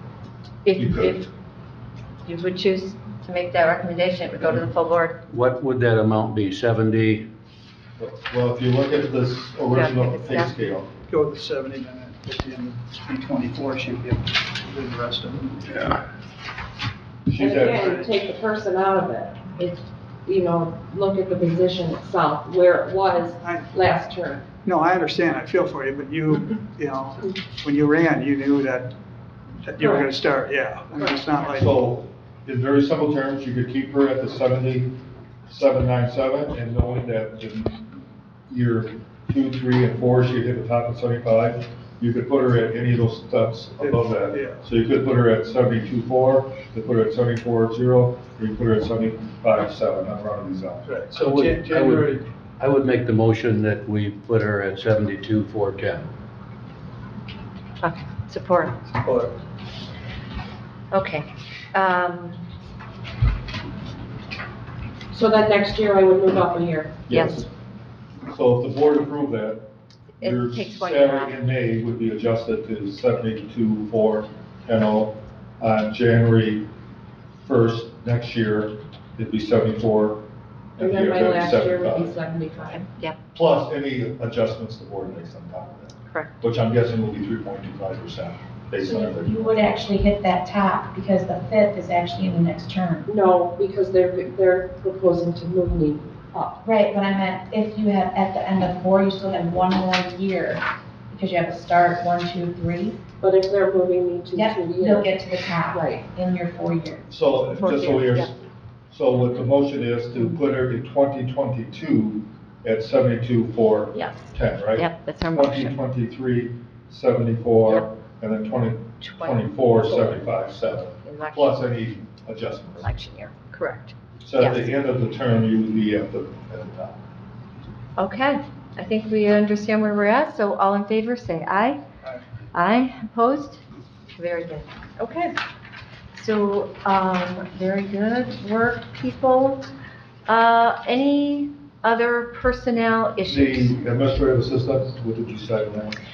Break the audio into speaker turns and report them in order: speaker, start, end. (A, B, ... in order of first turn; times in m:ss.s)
0:00.6-0:01.3 A
0:00.8-0:01.3 B
0:02.2-0:05.2 A
0:05.3-0:07.3 C
0:08.0-0:10.9 B
0:09.7-0:10.5 A
0:11.1-0:15.9 D
0:17.3-0:17.9 B
0:17.4-0:24.4 E
0:17.7-0:18.1 D
0:23.4-0:23.7 D
0:24.6-0:29.0 D
0:29.6-0:31.7 D
0:31.5-0:34.9 B
0:35.5-0:37.9 B
0:38.5-0:50.9 B
0:43.8-0:44.6 D
0:50.8-0:52.2 D
0:51.1-0:56.1 C
0:57.8-0:58.8 A
0:58.9-0:59.4 D
1:00.9-1:02.5 A
1:05.1-1:07.1 E
1:07.1-1:07.5 B
1:07.1-1:07.4 A
1:08.3-1:09.7 B
1:10.2-1:16.7 B
1:10.2-1:11.4 A
1:17.4-1:20.2 B
1:20.8-1:22.2 B
1:20.8-1:22.9 E
1:23.3-1:29.5 B
1:28.8-1:33.1 F
1:33.1-1:36.6 E
1:36.6-1:43.0 F
1:43.2-1:45.2 E
1:44.4-1:47.1 F
1:45.7-1:46.0 E
1:47.1-1:48.3 B
1:47.6-1:48.3 A
1:48.9-2:02.9 B
1:54.0-1:55.8 A
1:59.0-2:00.3 A
2:01.0-2:01.6 A
2:02.8-2:04.7 A
2:04.2-2:07.0 B
2:08.0-2:11.8 A
2:12.5-2:13.6 A
2:14.2-2:15.4 A
2:16.1-2:19.6 A
2:20.3-2:23.7 A
2:23.2-2:26.0 B